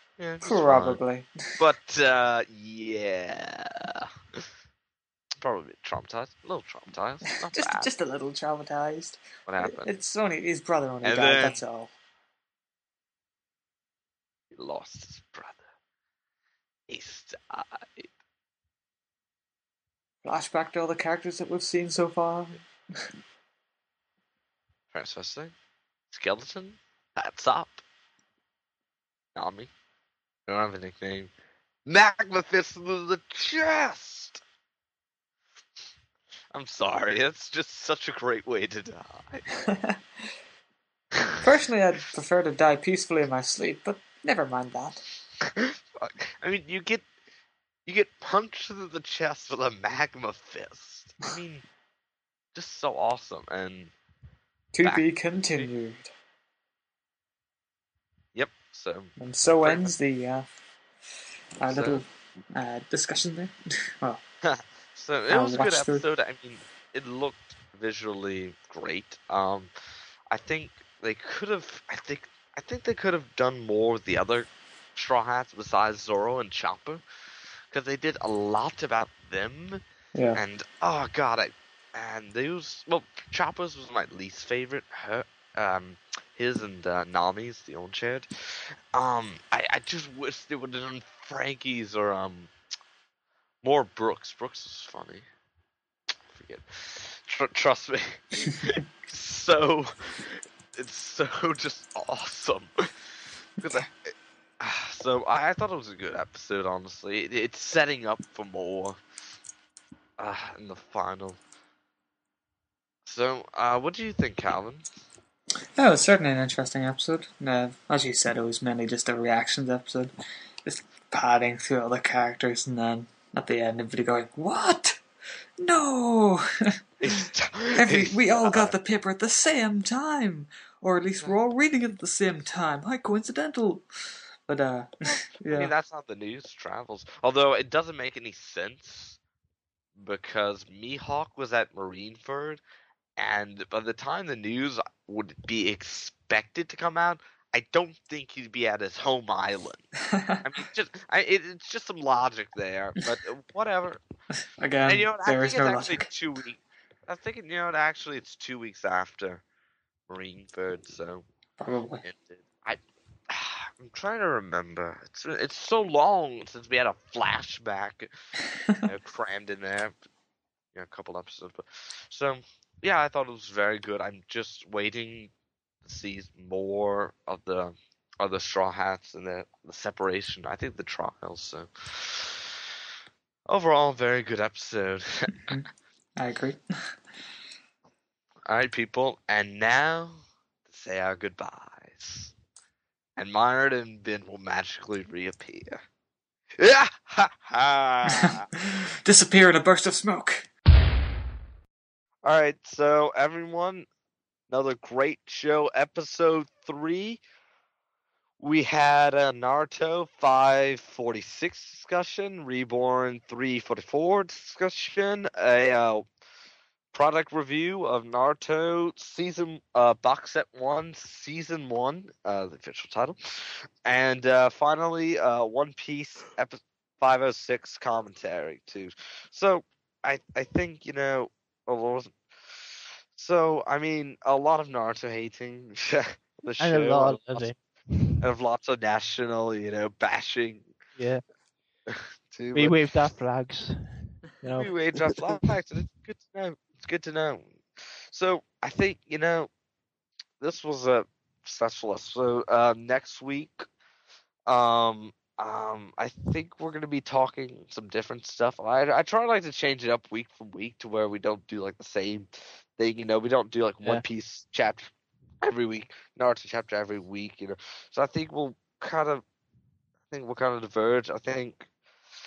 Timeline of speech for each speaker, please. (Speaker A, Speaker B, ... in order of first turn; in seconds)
Speaker A: 0.2-1.0, 1.6-4.4, 5.4-7.9, 9.5-9.9, 11.0-11.6, 14.5-15.6, 16.9-18.1, 24.9-25.5, 26.1-27.8, 29.4-29.7, 30.5-31.3, 31.9-34.4, 36.5-39.5, 45.5-47.1, 47.9-51.6, 52.5-53.9, 58.4-59.9, 61.7-62.0, 64.4-69.7, 70.3-77.0, 77.7-79.8, 80.3-92.5, 93.6-95.3, 96.3-102.8, 103.6-109.0, 110.2-111.4, 113.1-114.9, 127.0-128.8, 135.1-139.2, 140.0-142.6, 143.2-149.8, 150.4-154.0, 154.9-159.4, 160.1-161.2, 162.0-168.1, 168.8-169.9, 170.8-175.3, 175.8-182.6, 183.5-185.5, 188.5-192.3, 193.2-195.8, 196.6-198.5, 202.2-203.9, 204.5-207.2, 208.4-216.1, 216.9-237.5, 238.2-240.7, 241.9-242.8, 244.5-249.5, 250.4-253.7, 254.5-264.9, 265.4-269.2, 270.1-271.7
Speaker B: 0.4-1.3, 7.5-11.9, 20.2-23.0, 39.7-40.0, 41.4-45.0, 54.7-56.1, 59.2-60.5, 61.6-64.2, 65.3-66.0, 115.8-120.1, 120.6-125.0, 125.6-126.8, 127.8-133.8, 134.5-135.7, 154.6-156.1, 161.6-162.1, 186.2-186.9, 198.1-200.5
Speaker C: 236.6-238.1, 242.5-245.4